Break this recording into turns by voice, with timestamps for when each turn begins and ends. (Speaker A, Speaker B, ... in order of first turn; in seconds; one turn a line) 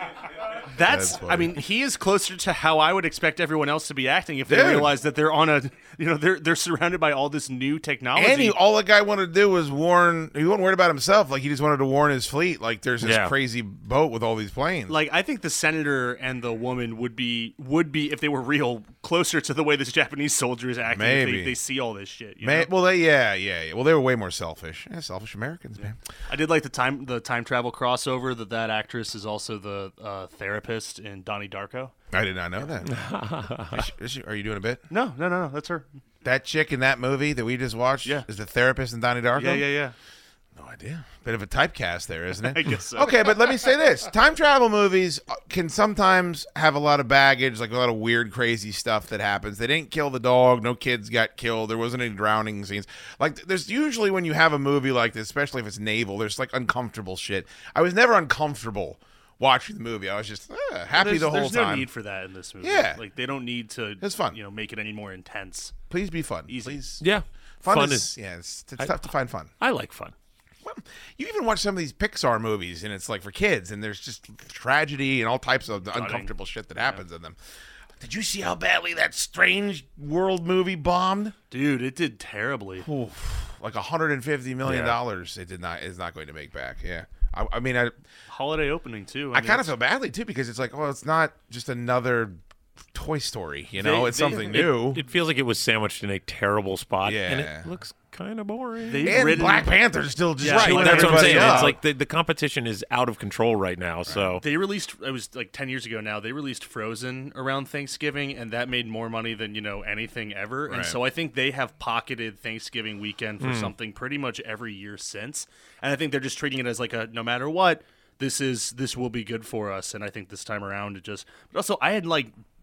Speaker A: 0.7-8.6
Speaker B: 0.8-1.6
Speaker B: 4.5-5.0
Speaker B: 8.1-14.9
Speaker C: 13.0-13.3
Speaker A: 14.9-22.7
Speaker B: 20.9-21.6
Speaker B: 22.4-26.0
Speaker A: 26.3-31.9
Speaker B: 32.1-33.0
Speaker C: 32.9-33.8
Speaker B: 33.6-34.8
Speaker A: 34.9-35.9
Speaker B: 36.2-39.7
Speaker A: 39.4-39.9
Speaker B: 40.5-61.9
Speaker A: 42.4-43.7
Speaker A: 60.9-65.8
Speaker B: 62.6-63.0
Speaker B: 64.0-64.4
Speaker B: 65.9-67.0
Speaker A: 66.5-66.8
Speaker C: 67.0-68.2
Speaker B: 67.6-69.5
Speaker C: 69.6-70.1
Speaker B: 70.6-77.4
Speaker A: 75.9-76.3
Speaker B: 78.0-81.4
Speaker A: 81.5-82.9
Speaker B: 82.8-88.0
Speaker A: 88.3-89.7
Speaker B: 89.3-92.4
Speaker B: 92.9-95.0
Speaker A: 93.8-94.7
Speaker C: 94.5-99.2
Speaker B: 97.0-97.7
Speaker A: 98.9-99.7
Speaker B: 99.0-101.8
Speaker A: 100.4-101.8
Speaker C: 100.5-104.4
Speaker A: 104.4-122.3
Speaker B: 110.7-111.0
Speaker C: 113.4-113.7